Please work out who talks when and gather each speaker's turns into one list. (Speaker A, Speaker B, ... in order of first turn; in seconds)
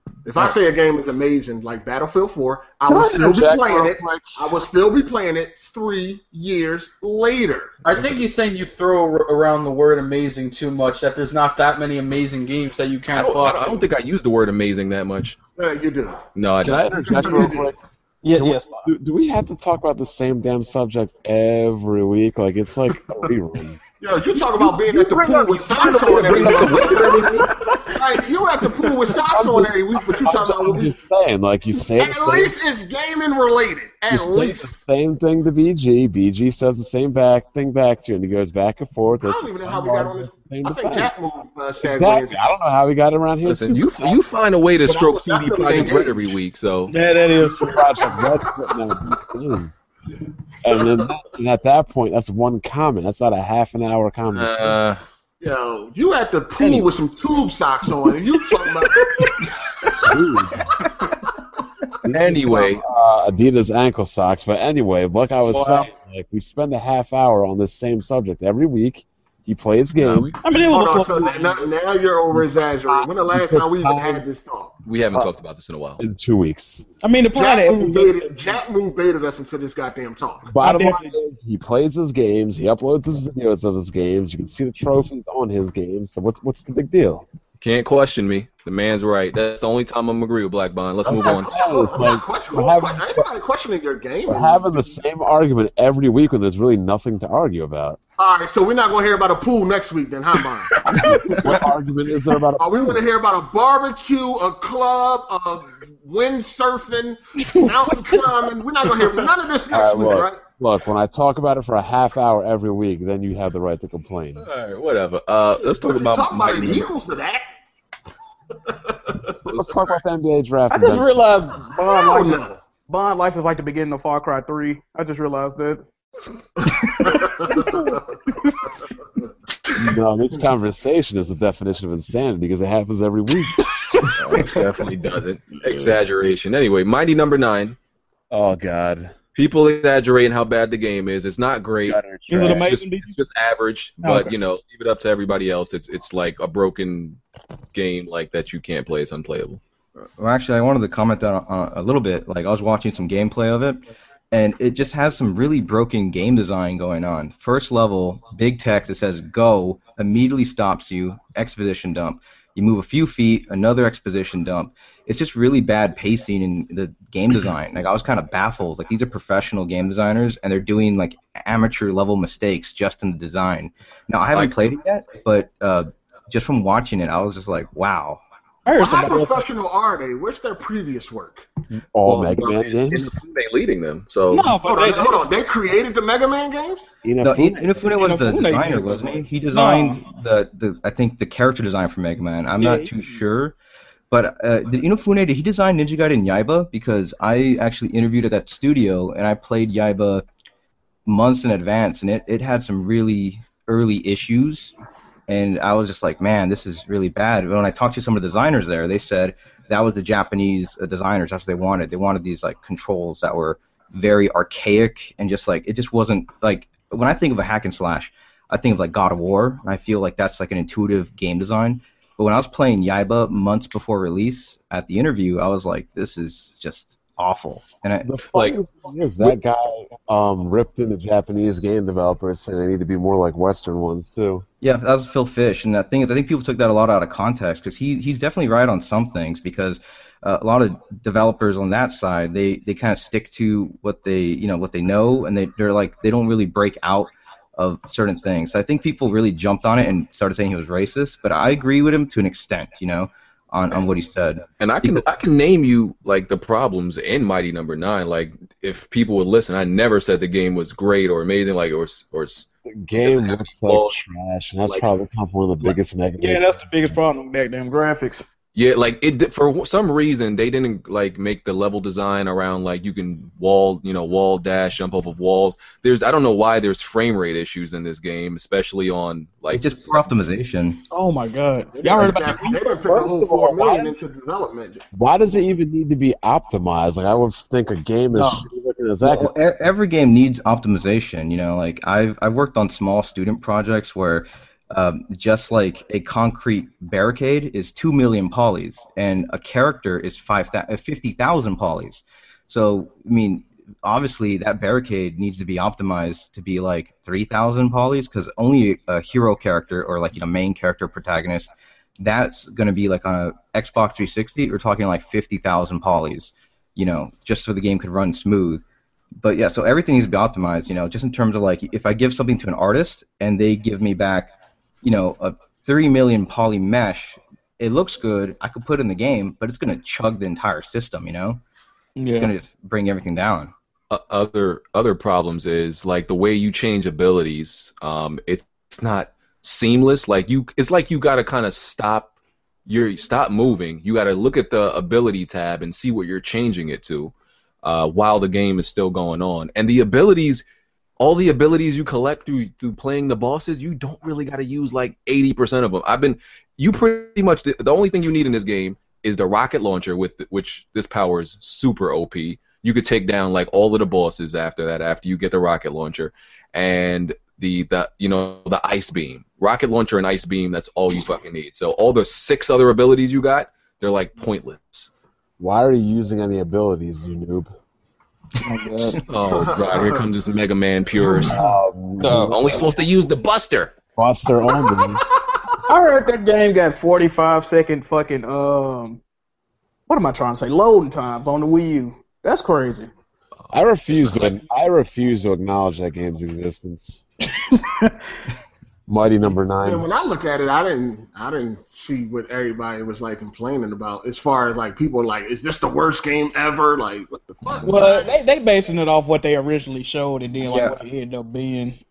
Speaker A: 0.2-7.7, 15.6-16.2, 16.9-17.7, 24.0-30.9, 32.0-34.7, 39.2-42.5, 44.8-46.4, 50.7-51.0, 55.4-60.2, 70.5-74.8, 77.3-80.6, 91.2-95.0, 98.2-100.7, 102.6-110.4, 115.6-117.5, 118.6-119.3, 121.7-122.6, 126.6-128.2, 178.7-181.5, 184.6-186.9, 281.8-284.8, 379.2-380.1, 381.0-381.4, 399.6-408.1
Speaker B: 2.9-4.3, 16.6-17.8, 18.3-23.8, 26.2-27.1, 29.2-32.5, 34.1-41.1, 41.8-44.2, 47.4-49.7, 50.6-54.8, 60.0-60.7, 62.0-70.3, 72.3-74.2, 76.0-76.9, 80.5-87.2, 91.0-93.3, 94.3-98.0, 100.8-103.0, 109.7-114.5, 119.4-121.1, 129.7-133.7, 134.2-134.6, 135.6-135.9, 138.3-139.1, 141.8-142.7, 181.9-183.2, 187.0-187.9, 228.0-234.4, 262.7-266.6, 284.9-289.3, 375.4-377.5, 381.2-382.7, 383.9-385.0, 393.5-397.0, 398.9-399.9
Speaker C: 7.8-13.8
Speaker D: 13.1-15.4, 16.3-17.3, 24.9-27.5, 43.4-46.9, 54.3-55.0, 62.0-62.8, 70.0-70.4, 74.8-76.0, 87.6-91.5, 114.4-116.9, 119.5-119.8, 134.1-137.8, 139.3-147.2, 147.7-149.6, 182.0-184.6, 254.6-264.0, 268.5-280.0, 333.9-342.1, 342.6-350.4, 351.0-374.9, 379.1-381.4, 382.1-383.7, 393.4-394.4, 407.4-408.0
Speaker E: 18.2-18.9, 27.2-27.9, 46.9-48.3, 56.6-56.9, 65.5-65.9, 70.4-71.7, 77.0-78.5, 80.6-81.1, 101.0-101.4, 107.6-108.1, 120.7-125.8, 127.5-128.0, 142.3-143.1, 144.0-144.3, 178.7-179.5, 184.3-185.3, 187.9-190.1, 192.6-193.0, 266.2-268.2, 280.9-283.9, 332.0-332.3, 378.4-379.0, 382.0-382.4, 385.7-389.0, 389.9-392.9, 397.4-397.9, 407.6-411.8
Speaker F: 150.2-153.8, 154.3-178.2, 187.2-193.5, 194.1-200.2, 201.1-204.7, 205.3-228.2, 234.6-255.1, 279.5-280.8, 289.0-318.6, 319.2-324.3, 324.8-331.4, 332.1-333.5, 410.4-410.8